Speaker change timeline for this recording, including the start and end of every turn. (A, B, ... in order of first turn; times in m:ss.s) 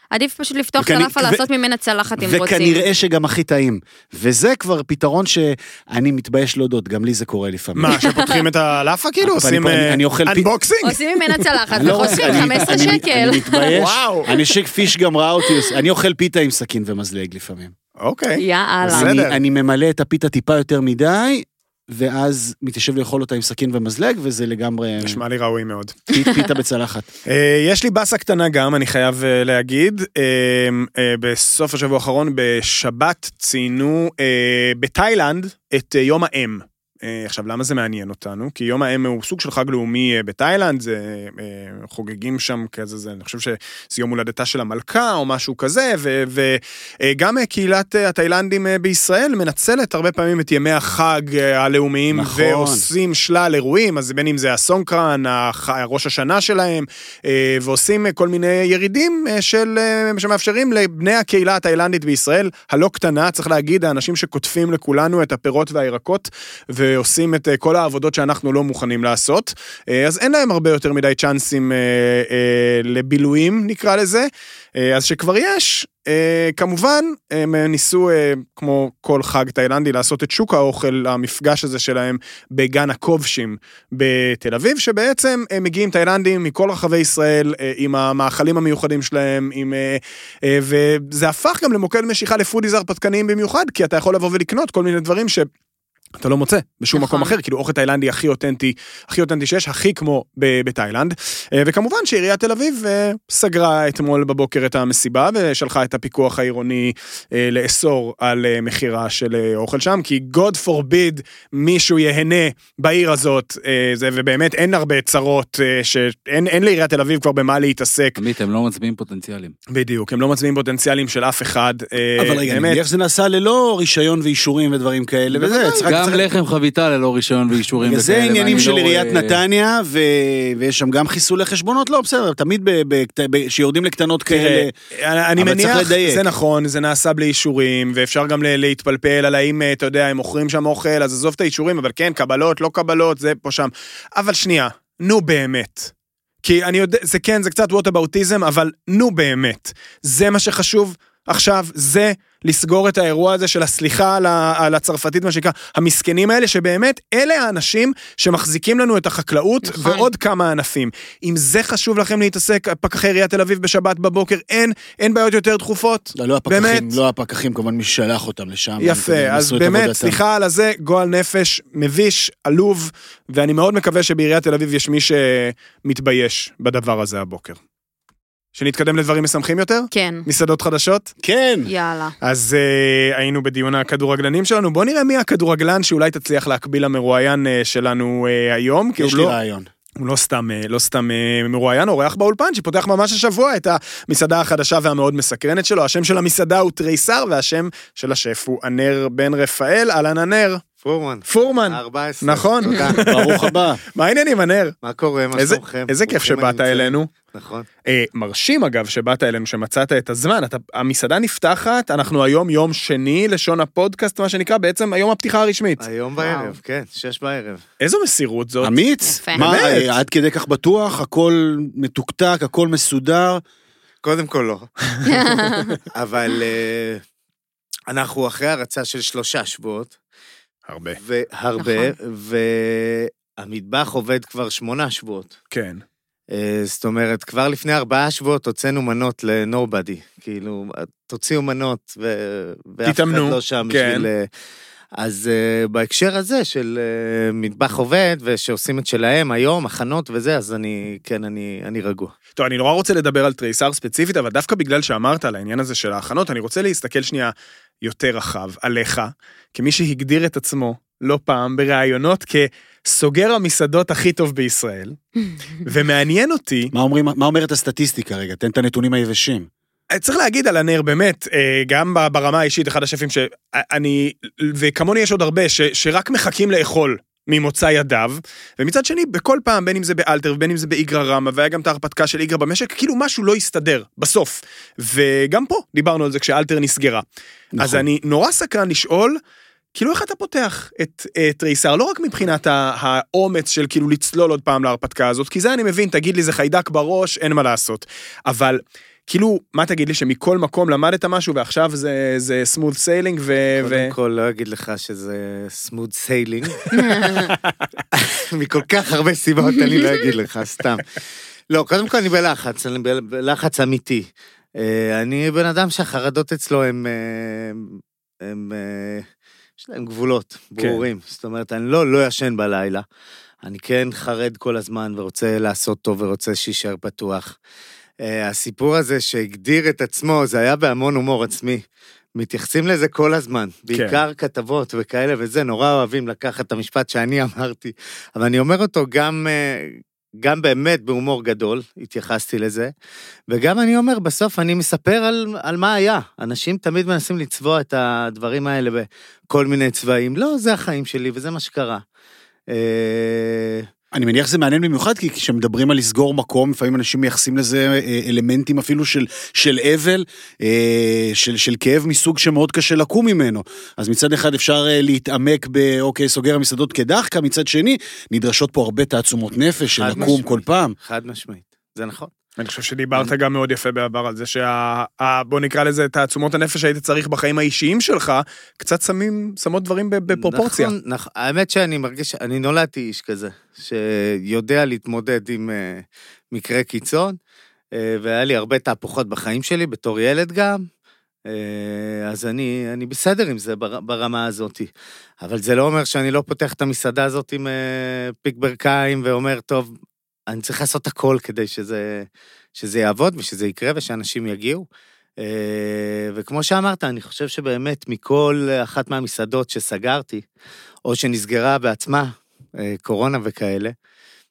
0:00.1-0:02.8 A
0:00.8-0:01.4 B
0:02.2-0:08.0 B
0:07.8-0:12.5 C
0:07.9-0:08.4 A
0:09.2-0:10.5 B
0:10.8-0:13.8 A
0:11.7-0:17.7 B
0:13.7-0:14.3 C
0:15.5-0:15.7 A
0:18.0-0:19.4 C
0:18.4-0:19.1 A
0:18.8-0:25.2 B
0:25.0-0:26.0 C
0:26.1-0:27.1 B
0:27.3-1:35.5 C
0:52.1-0:52.9 B
1:36.2-1:58.2 C
1:36.9-1:37.4 A
1:58.2-1:59.5 D
1:59.7-2:02.8 C
2:02.2-2:06.3 B
2:05.3-2:09.4 D
2:07.8-2:14.7 B
2:08.4-2:08.7 A
2:14.3-2:25.9 C
2:15.4-2:16.2 B
2:26.4-2:46.9 C
2:39.6-2:40.1 A
2:46.1-2:50.2 B
2:48.8-2:57.6 C
2:58.5-3:01.1 C
2:59.9-3:00.3 A
3:01.2-3:01.7 B
3:01.6-3:02.2 A
3:02.2-3:09.4 C
3:09.0-3:09.7 B
3:10.0-3:20.6 C
3:20.8-3:23.0 E
3:21.3-3:24.7 C
3:23.0-3:23.8 B
3:24.8-3:27.6 E
3:25.4-3:27.1 C
3:27.8-3:35.8 C
3:35.8-3:37.6 E
3:36.2-3:36.5 A
3:37.8-3:38.8 C
3:38.6-3:43.4 B
3:39.1-3:39.5 A
3:39.3-3:40.0 C
3:44.0-3:44.7 E
3:45.0-3:45.7 A
3:45.9-3:47.0 E
3:47.9-3:49.9 E
3:50.7-3:51.0 C
3:51.0-3:55.4 E
3:51.6-3:51.9 A
3:55.5-3:55.8 C
3:56.3-4:04.3 E
4:02.8-4:04.1 C
4:05.0-4:12.1 E
4:12.4-4:25.0 C
4:25.6-4:26.7 C
4:26.7-4:29.5 B
4:29.9-4:47.0 C
4:47.5-4:47.8 B
4:47.6-4:49.2 C
4:49.7-5:03.9 C
5:03.6-5:06.7 E
5:06.7-5:07.3 A
5:07.9-5:10.8 E
5:11.5-5:19.0 E
5:19.6-5:22.8 E
5:20.6-5:20.8 C
5:23.4-5:27.4 E
5:28.0-5:31.6 E
5:32.2-5:42.7 E
5:33.7-5:34.0 C
5:43.3-5:51.8 E
5:52.5-5:53.7 E
5:53.9-6:10.7 B
6:09.8-6:12.1 E
6:12.4-6:20.7 C
6:20.1-6:27.2 E
6:27.7-6:30.6 E
6:31.3-6:34.7 E
6:35.2-6:39.7 E
6:40.3-6:44.6 E
6:45.2-6:50.2 E
6:50.8-6:53.7 E